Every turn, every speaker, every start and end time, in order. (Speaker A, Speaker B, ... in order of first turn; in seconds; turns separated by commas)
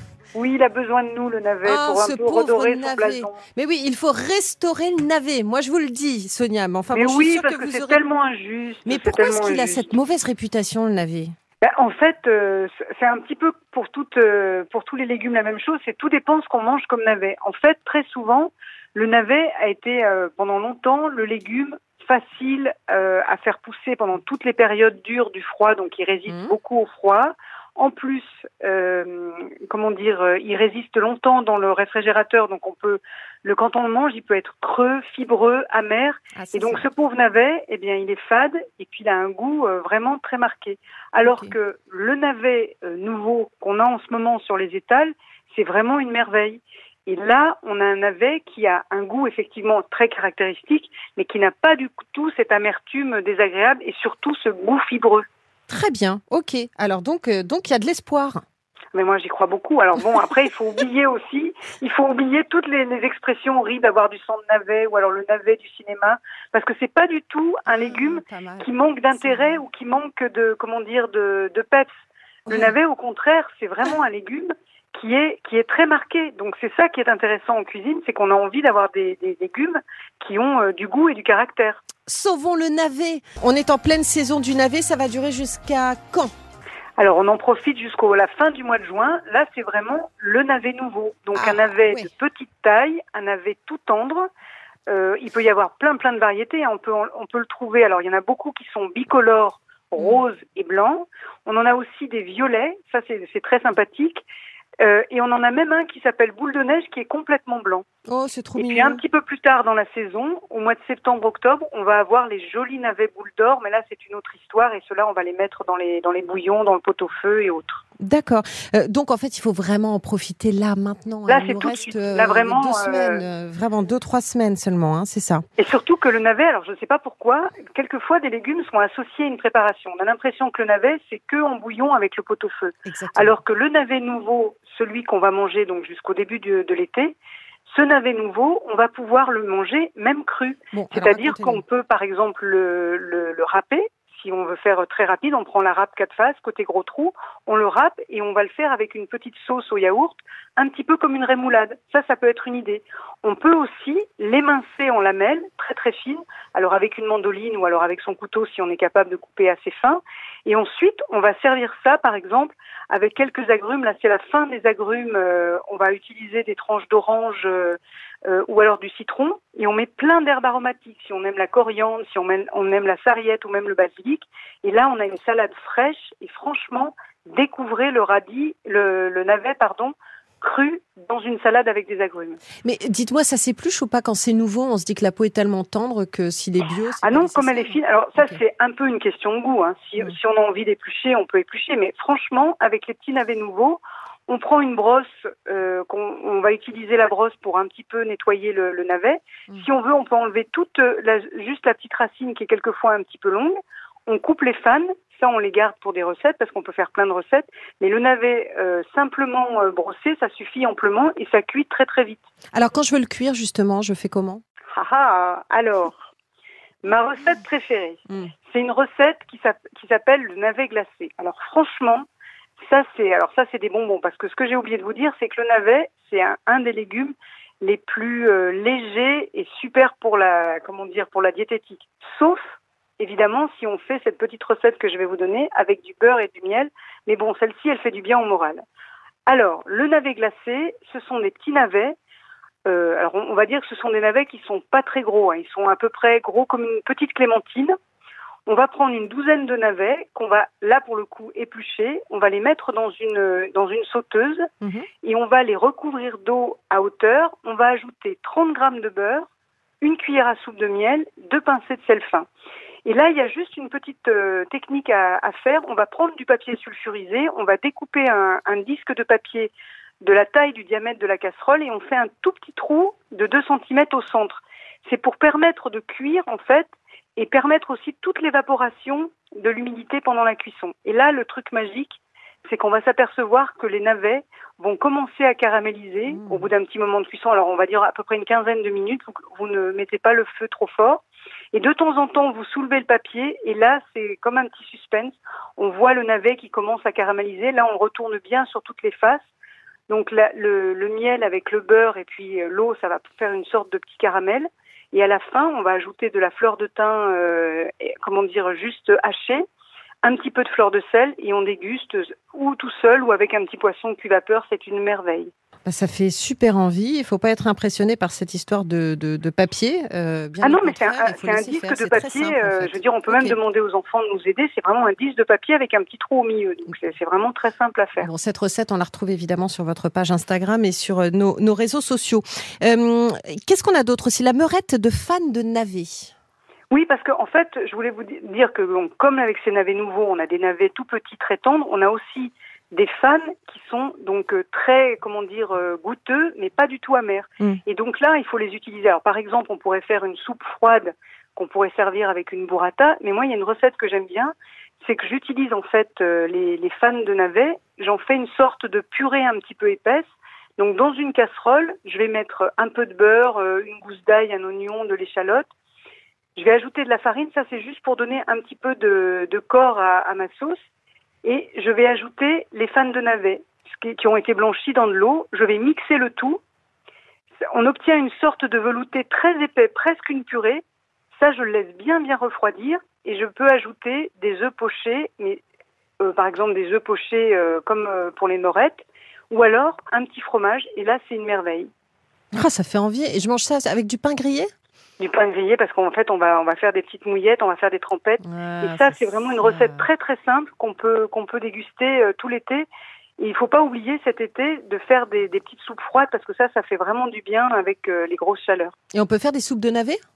Speaker A: 0.3-3.4, Speaker B: 1.6-8.0, Speaker A: 6.9-9.9, Speaker B: 8.8-11.3, Speaker A: 11.6-55.2, Speaker B: 26.3-26.5, Speaker B: 36.3-36.8, Speaker B: 41.2-41.5, Speaker B: 55.7-58.4, Speaker A: 58.9-71.9, Speaker B: 67.7-69.6, Speaker B: 72.5-72.7, Speaker A: 72.5-81.8, Speaker B: 82.0-86.3, Speaker A: 87.0-94.3, Speaker B: 91.3-92.1, Speaker A: 94.9-104.2, Speaker B: 100.0-100.2, Speaker A: 104.8-107.8, Speaker B: 108.1-109.0, Speaker A: 108.6-117.8, Speaker B: 118.0-125.4, Speaker A: 121.3-123.2, Speaker A: 125.6-137.2, Speaker B: 132.8-133.3, Speaker A: 137.7-182.4, Speaker B: 140.7-141.6, Speaker B: 182.6-188.4, Speaker A: 187.0-212.2, Speaker B: 212.5-214.4, Speaker A: 214.7-216.1, Speaker A: 216.8-222.1, Speaker A: 222.6-238.6, Speaker A: 239.3-241.9, Speaker A: 242.7-247.7, Speaker A: 248.5-254.5, Speaker B: 254.6-254.9, Speaker A: 255.0-259.3, Speaker A: 259.8-262.3, Speaker A: 262.8-291.0, Speaker B: 286.1-286.5, Speaker A: 291.5-299.2, Speaker A: 299.9-309.4, Speaker A: 310.0-315.3, Speaker B: 315.6-323.4, Speaker A: 320.4-328.1, Speaker B: 328.0-336.1, Speaker A: 336.7-365.5, Speaker A: 366.4-370.6, Speaker A: 371.2-376.4, Speaker A: 377.5-380.6, Speaker A: 381.2-385.4, Speaker A: 386.0-391.7, Speaker B: 392.3-394.5, Speaker A: 395.0-402.7, Speaker B: 398.2-399.8, Speaker A: 403.2-408.7, Speaker B: 408.9-410.0